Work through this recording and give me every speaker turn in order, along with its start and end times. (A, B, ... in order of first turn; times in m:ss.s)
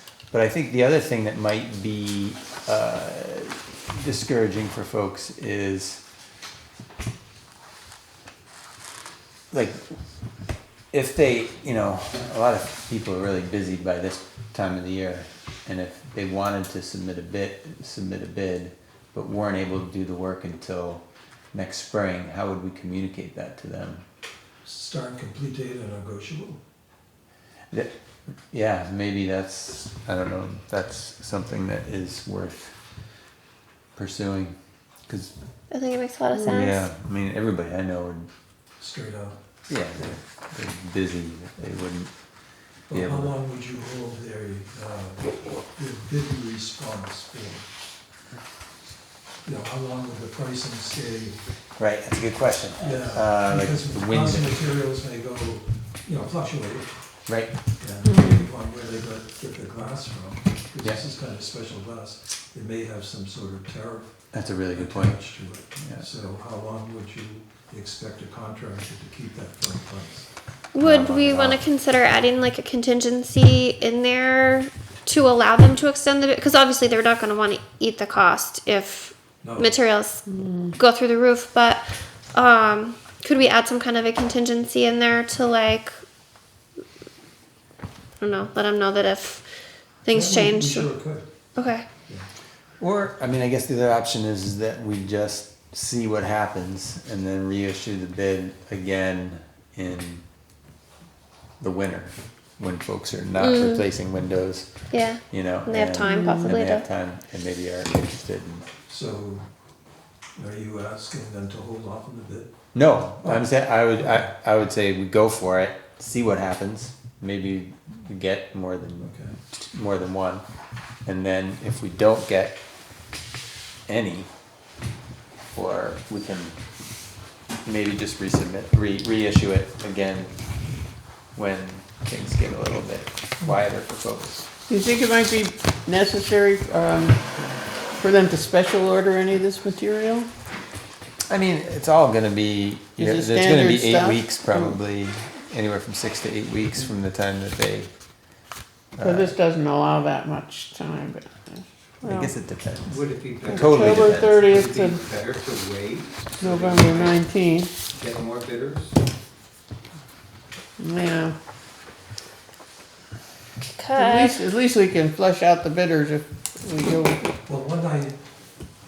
0:00.3-0:06.0 A
0:09.5-0:09.8 A
0:10.9-0:24.0 A
0:24.6-0:26.6 B
0:28.5-0:32.7 A
0:34.0-0:34.6 A
0:35.1-0:35.3 A
0:35.7-0:36.8 C
0:36.3-0:36.6 D
0:36.4-0:38.3 A
0:38.8-0:39.4 B
0:39.7-0:42.1 A
0:42.9-0:47.7 B
0:42.9-0:43.3 A
0:49.4-0:51.4 B
0:51.8-0:54.6 A
0:52.8-0:56.9 B
0:57.3-0:57.5 A
0:57.8-1:04.1 B
0:58.0-0:58.4 D
1:04.3-1:06.0 A
1:04.7-1:10.3 B
1:10.7-1:20.2 C
1:10.8-1:11.6 A
1:19.4-1:19.8 B
1:20.3-1:20.7 D
1:20.8-1:26.0 C
1:28.2-1:29.4 C
1:30.0-1:30.9 C
1:30.1-1:31.3 B
1:31.6-1:31.8 C
1:32.8-1:40.2 A
1:41.6-1:44.7 A
1:43.4-1:43.8 C
1:44.9-1:46.8 C
1:45.3-1:48.6 A
1:46.0-1:46.6 D
1:48.9-1:49.5 B
1:50.4-1:52.5 B
1:52.7-2:00.4 A
1:53.2-1:54.3 B
1:59.0-1:59.4 B
2:01.0-2:02.6 A
2:03.9-2:04.3 A
2:05.5-2:06.6 A
2:07.6-2:10.3 A
2:11.4-2:14.5 A
2:14.7-2:17.2 D
2:18.0-2:20.3 D
2:21.3-2:27.9 A
2:23.0-2:24.8 D
2:29.0-2:29.4 A
2:29.0-2:32.3 D
2:32.0-2:34.5 A
2:32.8-2:37.2 E
2:33.4-2:35.0 D
2:36.4-2:37.7 D
2:37.9-2:38.9 E
2:40.8-2:41.3 D
2:43.7-2:44.4 C
2:44.0-2:47.2 D
2:47.4-2:48.2 B